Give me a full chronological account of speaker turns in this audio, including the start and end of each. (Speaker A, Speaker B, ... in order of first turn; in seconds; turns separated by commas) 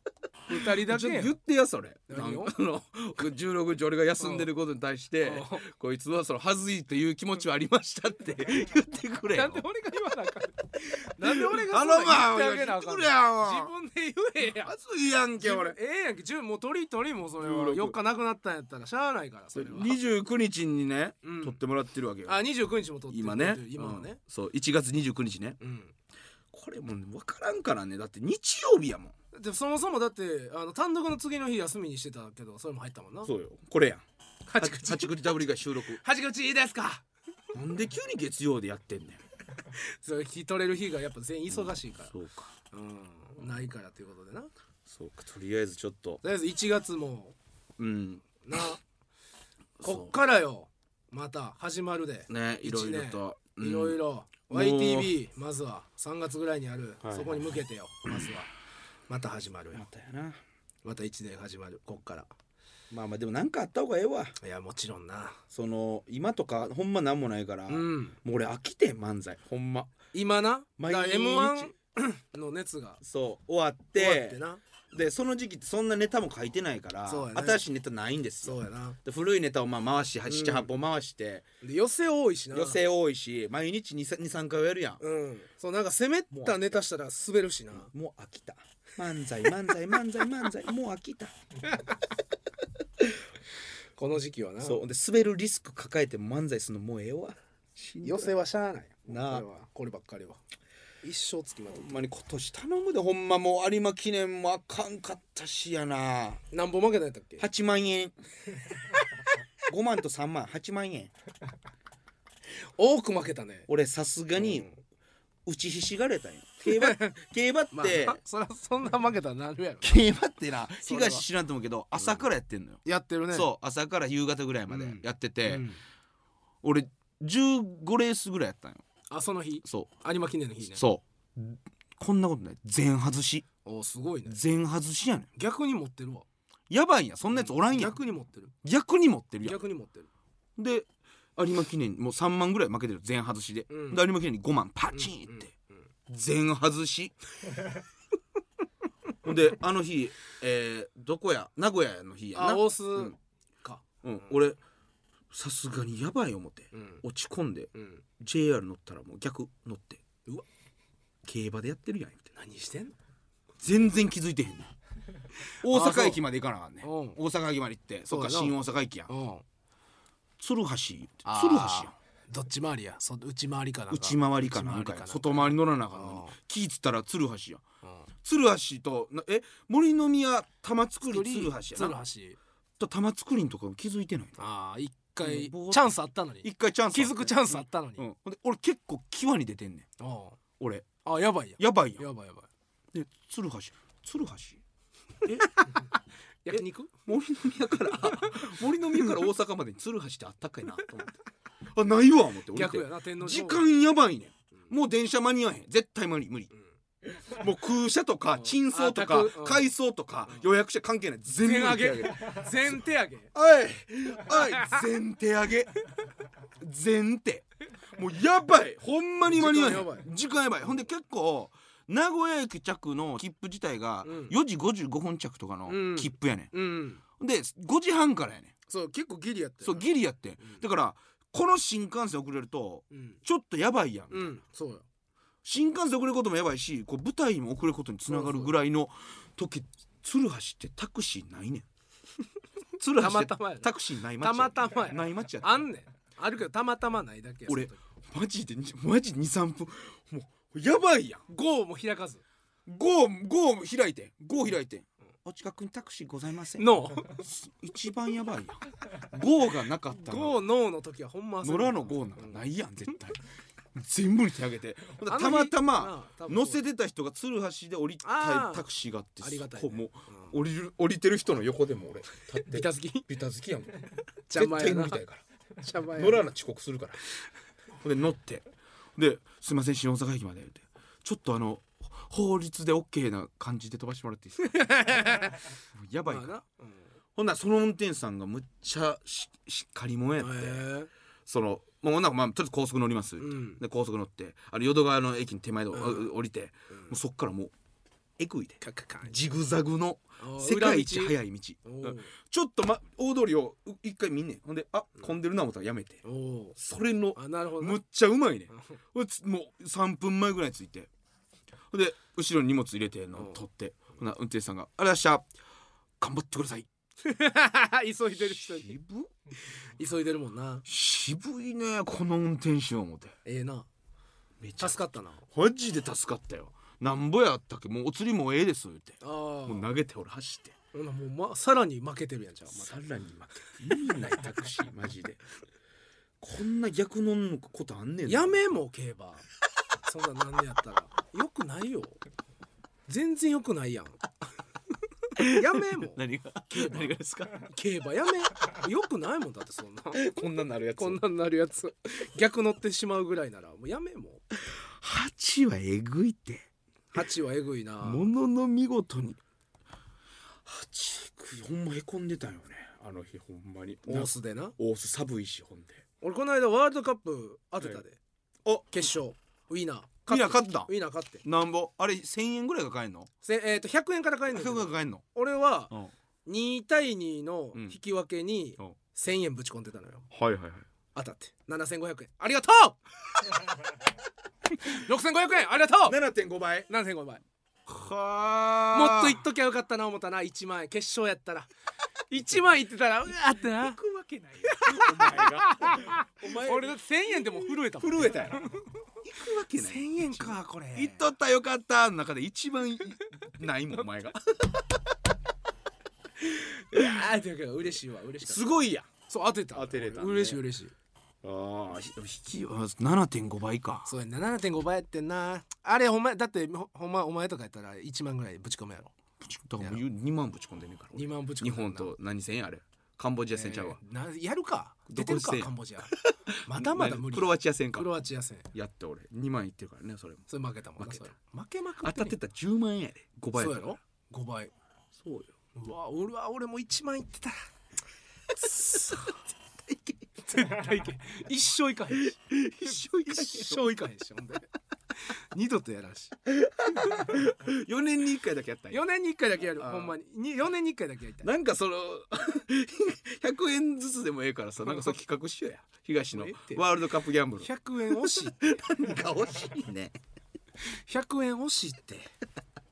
Speaker A: 0.5-1.3, Speaker B: 0.5-9.6, Speaker A: 2.1-2.5, Speaker A: 4.2-4.5, Speaker A: 5.2-5.6, Speaker A: 9.3-14.7, Speaker B: 11.2-13.7, Speaker B: 14.6-15.8, Speaker A: 15.4-20.0, Speaker B: 17.4-18.0, Speaker B: 19.5-22.4, Speaker A: 21.2-21.6, Speaker A: 22.2-24.2, Speaker B: 23.1-25.6, Speaker A: 25.6-25.9, Speaker B: 26.5-29.1, Speaker A: 29.3-33.3, Speaker B: 33.2-34.0, Speaker A: 34.5-35.1, Speaker B: 34.6-36.0, Speaker A: 35.9-37.0, Speaker B: 37.5-39.2, Speaker A: 39.7-42.1, Speaker B: 41.5-42.5, Speaker A: 42.7-44.5, Speaker B: 44.9-46.2, Speaker A: 46.2-47.4, Speaker B: 47.8-48.2, Speaker A: 48.4-48.8, Speaker B: 49.8-50.1, Speaker A: 49.8-58.5, Speaker B: 52.3-54.0, Speaker B: 54.5-55.1, Speaker B: 57.0-57.5, Speaker A: 59.1-59.8, Speaker B: 59.7-60.4, Speaker A: 60.8-62.3, Speaker B: 62.9-64.3, Speaker A: 64.4-65.4, Speaker B: 65.5-69.9, Speaker A: 67.7-68.2, Speaker A: 70.1-73.0, Speaker B: 70.8-71.7, Speaker B: 73.0-81.5, Speaker A: 74.0-74.6, Speaker A: 77.1-77.6, Speaker A: 78.4-79.0, Speaker A: 80.3-80.7, Speaker A: 81.6-82.8, Speaker B: 82.5-85.0, Speaker A: 85.0-87.9, Speaker B: 86.3-86.8, Speaker B: 87.7-91.3, Speaker A: 94.0-94.8, Speaker B: 94.6-98.3, Speaker A: 98.0-100.4, Speaker B: 99.1-99.5, Speaker A: 101.0-102.0, Speaker B: 101.7-106.4, Speaker A: 106.5-107.5, Speaker B: 107.4-108.1, Speaker B: 109.7-111.1, Speaker A: 112.6-113.7, Speaker B: 113.7-114.7, Speaker A: 114.3-114.8, Speaker B: 115.5-118.2, Speaker A: 116.6-120.1, Speaker B: 119.8-125.7, Speaker A: 120.8-121.2, Speaker A: 122.8-123.5, Speaker A: 124.7-125.8, Speaker B: 126.6-128.8, Speaker A: 129.1-130.8, Speaker B: 130.7-133.4, Speaker A: 133.6-134.4, Speaker B: 134.3-135.3, Speaker A: 135.4-136.2, Speaker B: 136.7-138.0, Speaker A: 137.3-138.5, Speaker B: 138.6-139.6, Speaker A: 139.4-140.1, Speaker B: 140.6-145.5, Speaker A: 143.7-144.0, Speaker A: 144.9-145.5, Speaker B: 146.1-147.1, Speaker B: 149.2-153.1, Speaker A: 152.3-153.8, Speaker B: 154.0-154.6, Speaker B: 155.3-160.0, Speaker A: 156.7-157.0, Speaker A: 157.7-158.0, Speaker B: 161.2-162.3, Speaker A: 162.3-162.9, Speaker B: 163.6-164.7, Speaker B: 165.6-169.1, Speaker A: 165.6-166.2, Speaker A: 166.8-167.2, Speaker A: 168.1-168.5, Speaker A: 169.1-169.4, Speaker B: 170.4-171.9, Speaker A: 171.2-176.3, Speaker B: 173.9-177.6, Speaker B: 178.2-182.0, Speaker A: 181.1-182.4, Speaker B: 182.8-184.3, Speaker A: 184.4-188.0, Speaker B: 185.2-185.9, Speaker B: 186.4-189.8, Speaker A: 190.0-190.4, Speaker B: 190.6-190.9, Speaker A: 191.0-192.5, Speaker B: 191.6-192.0, Speaker B: 192.9-194.6, Speaker B: 195.2-195.8, Speaker A: 195.4-195.8, Speaker A: 196.4-196.9, Speaker B: 196.5-201.2, Speaker A: 198.1-198.5, Speaker B: 201.7-206.5, Speaker A: 202.5-203.6, Speaker B: 207.0-212.8, Speaker A: 208.3-209.7, Speaker A: 211.4-213.3, Speaker B: 213.3-215.8, Speaker A: 214.5-214.8, Speaker B: 216.6-226.5, Speaker A: 219.2-220.1, Speaker A: 224.0-224.3, Speaker A: 225.7-227.0, Speaker B: 227.2-228.5, Speaker A: 228.7-229.9, Speaker B: 229.6-234.4, Speaker A: 232.9-233.2, Speaker A: 234.1-234.8, Speaker B: 235.4-241.7, Speaker A: 238.1-238.5, Speaker B: 242.8-245.6, Speaker A: 243.0-247.8, Speaker B: 247.5-251.2, Speaker A: 251.3-252.2, Speaker B: 252.7-260.4, Speaker A: 256.6-257.2, Speaker A: 260.0-262.4, Speaker B: 261.4-263.2, Speaker B: 263.7-275.2, Speaker A: 265.1-266.6, Speaker A: 268.0-268.7, Speaker A: 269.2-270.3, Speaker A: 272.4-273.1, Speaker A: 274.3-275.0, Speaker A: 275.6-276.3, Speaker B: 275.9-277.0, Speaker B: 277.8-284.7, Speaker A: 284.4-285.5, Speaker B: 285.7-286.3, Speaker A: 286.1-286.8, Speaker B: 287.1-290.6, Speaker A: 290.2-290.9, Speaker B: 291.2-297.5, Speaker A: 293.2-293.6, Speaker A: 295.7-296.1, Speaker B: 298.2-306.0, Speaker A: 298.6-299.1, Speaker A: 300.2-302.1, Speaker A: 306.0-306.6, Speaker B: 306.6-310.9, Speaker A: 307.1-307.8, Speaker A: 308.5-308.8, Speaker B: 311.7-315.3, Speaker B: 316.0-316.7, Speaker A: 317.0-318.7, Speaker B: 318.2-319.1, Speaker A: 319.8-320.6, Speaker B: 320.6-323.1, Speaker A: 323.2-323.7, Speaker B: 324.4-324.8, Speaker A: 324.6-325.2, Speaker B: 325.3-330.5, Speaker A: 329.0-329.7, Speaker A: 330.7-332.8, Speaker B: 332.5-335.2, Speaker B: 336.2-338.5, Speaker A: 338.1-339.2, Speaker A: 339.8-342.0, Speaker A: 342.9-344.0, Speaker B: 345.2-347.5, Speaker A: 345.2-346.9, Speaker A: 347.5-350.0, Speaker B: 349.9-351.0, Speaker A: 350.8-354.2, Speaker B: 354.5-356.5, Speaker A: 356.9-358.1, Speaker B: 357.8-359.2, Speaker B: 360.4-365.8, Speaker A: 363.9-364.5, Speaker A: 366.0-368.0, Speaker B: 368.4-368.8, Speaker A: 368.7-371.2, Speaker B: 370.1-370.7, Speaker B: 371.2-373.1, Speaker A: 373.2-375.7, Speaker B: 374.3-375.0, Speaker A: 376.2-380.1, Speaker B: 380.1-380.6, Speaker A: 380.9-382.8, Speaker A: 384.6-386.0, Speaker B: 385.8-386.7, Speaker A: 386.7-387.2, Speaker B: 387.7-389.2, Speaker A: 388.7-391.5, Speaker A: 392.1-393.8, Speaker B: 393.5-398.5, Speaker A: 394.4-398.7, Speaker B: 399.0-404.5, Speaker A: 399.5-401.1, Speaker A: 406.2-408.5, Speaker B: 408.2-408.9, Speaker A: 409.1-410.7, Speaker B: 409.5-410.4, Speaker B: 411.2-413.9, Speaker A: 413.9-418.9, Speaker B: 419.2-423.8, Speaker A: 420.9-421.9, Speaker A: 423.3-428.5, Speaker B: 424.9-427.9, Speaker B: 428.5-430.2, Speaker A: 430.3-432.1, Speaker B: 430.8-431.1, Speaker B: 431.8-433.7, Speaker A: 433.4-434.5, Speaker B: 435.0-435.3, Speaker A: 435.5-437.4, Speaker B: 438.4-440.1, Speaker A: 438.4-439.1, Speaker A: 440.2-442.1, Speaker B: 441.9-443.7, Speaker A: 442.6-444.5, Speaker A: 445.0-446.1, Speaker B: 446.3-448.8, Speaker A: 448.7-451.3, Speaker B: 449.6-450.0, Speaker B: 451.2-457.5, Speaker A: 454.6-454.9, Speaker A: 456.1-456.6, Speaker A: 457.4-458.4, Speaker B: 458.1-460.0, Speaker A: 460.7-462.1